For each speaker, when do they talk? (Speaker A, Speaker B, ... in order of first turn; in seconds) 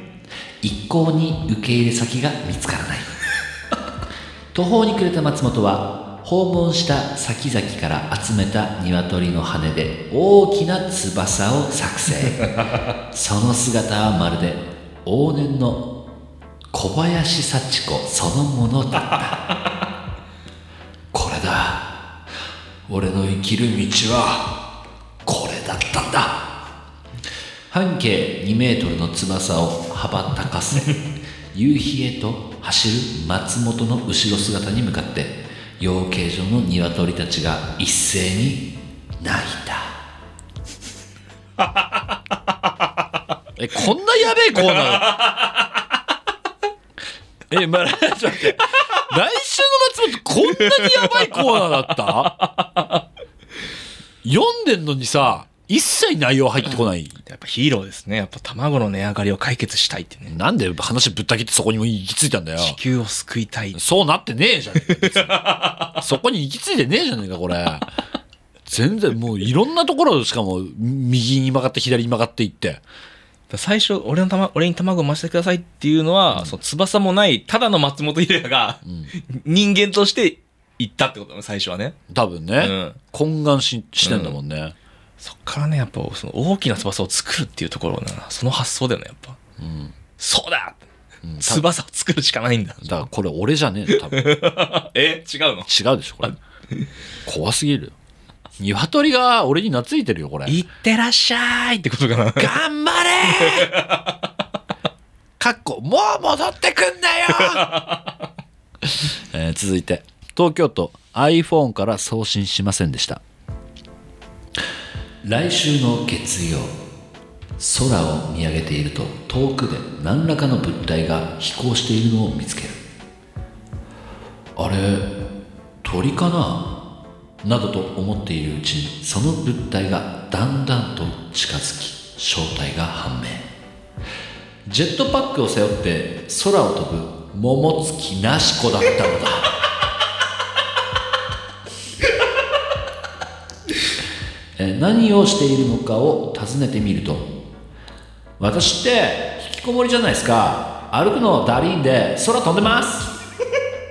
Speaker A: 0.6-3.1, 4.5-12.5, 13.1-15.9, 16.7-19.4, 21.1-21.9, 22.9-24.5, 25.2-26.5, 27.7-31.0, 31.5-38.6, 39.2-40.0, 43.6-45.4, 47.5-52.4, 54.2-57.2, 60.3-62.8, 63.8-67.9, 68.7-72.8, 78.8-79.1, 82.1-84.8, 89.6-90.0, 91.2-91.7, 92.8-94.3, 95.7-96.4, 97.3-98.0, 98.6-100.6, 102.4-103.8, 105.4-107.8, 109.0-113.2, 115.2-116.7, 117.6-122.8, 124.6-125.1, 125.8-126.7, 127.4-133.5, 134.7-139.5, 144.6-147.3, 148.4-153.1
Speaker B: 44.8-45.5, 50.6-53.0, 57.2-60.3, 62.6-63.8, 65.0-66.0, 73.5-82.0, 82.6-83.0, 84.0-84.4, 85.2-89.4, 90.2-90.8, 91.4-92.9, 93.9-95.7, 96.2-96.9, 100.5-102.5, 103.3-104.3, 107.3-108.2